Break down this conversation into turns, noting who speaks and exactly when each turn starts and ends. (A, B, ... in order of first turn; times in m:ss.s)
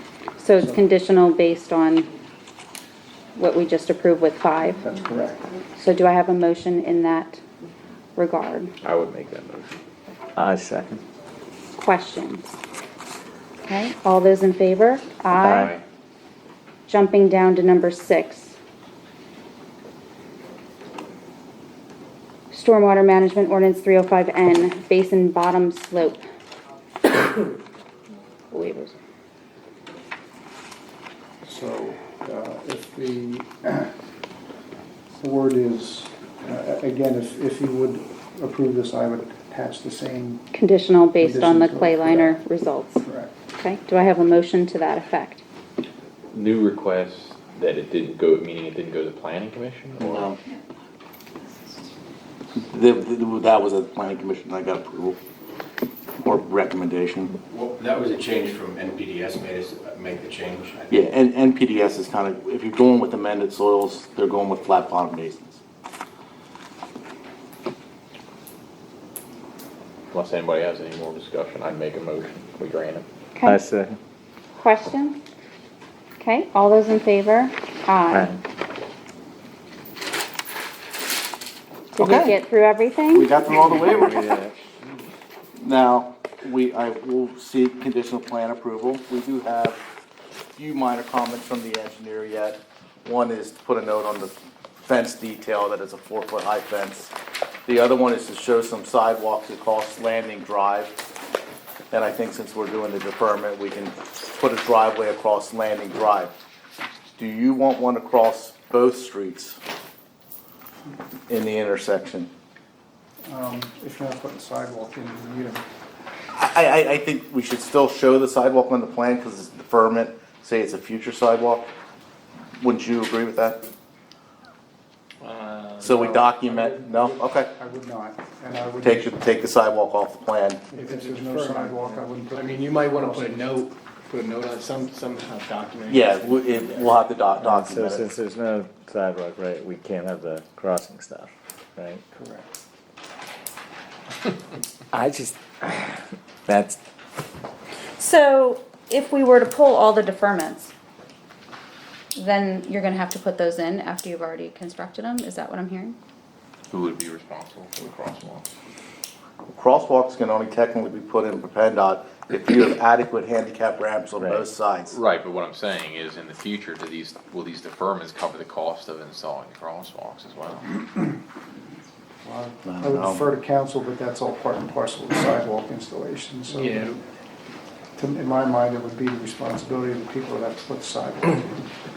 0:00.4-0:02.1 A
0:03.3-0:04.8 A
0:04.8-0:05.5 B
0:05.7-0:07.4 A
0:08.2-0:08.7 A
0:08.8-0:09.8 C
0:10.4-0:11.0 D
0:11.8-0:12.6 A
0:13.7-0:15.7 A
0:15.4-0:15.8 C
0:16.9-0:18.6 A
0:22.5-0:26.2 A
0:28.5-0:29.0 A
0:31.4-0:33.9 B
0:35.2-0:40.5 B
0:40.5-0:45.4 A
0:41.2-0:42.4 B
0:43.0-0:43.3 B
0:46.3-0:50.3 C
0:50.0-0:50.4 E
0:52.6-0:55.2 E
0:56.2-0:57.4 E
0:57.5-1:00.9 F
1:00.9-1:05.6 E
1:10.1-1:13.0 C
1:13.4-1:14.0 D
1:14.6-1:15.2 A
1:16.2-1:18.4 A
1:21.9-1:23.3 A
1:23.1-1:24.1 E
1:23.6-1:24.5 D
1:25.6-1:29.8 E
1:30.6-1:37.1 E
1:37.7-1:41.0 E
1:41.9-1:46.3 E
1:47.2-1:49.6 E
1:51.3-1:52.3 E
1:53.2-1:55.6 B
1:56.3-2:01.7 E
2:02.6-2:03.7 E
2:05.2-2:06.2 G
2:05.8-2:07.5 E
2:06.1-2:09.2 B
2:08.8-2:10.7 E
2:10.7-2:13.5 B
2:10.7-2:17.0 G
2:15.9-2:18.0 E
2:17.4-2:22.0 D
2:22.2-2:22.4 B
2:24.9-2:26.8 D
2:27.9-2:30.7 A
2:32.1-2:36.0 A
2:36.7-2:38.5 C
2:39.5-2:45.0 E
2:44.2-2:44.4 D
2:44.9-2:50.7 C
2:52.2-2:56.9 B
2:52.6-2:53.3 E
2:56.5-2:57.0 G
2:58.0-3:01.6 B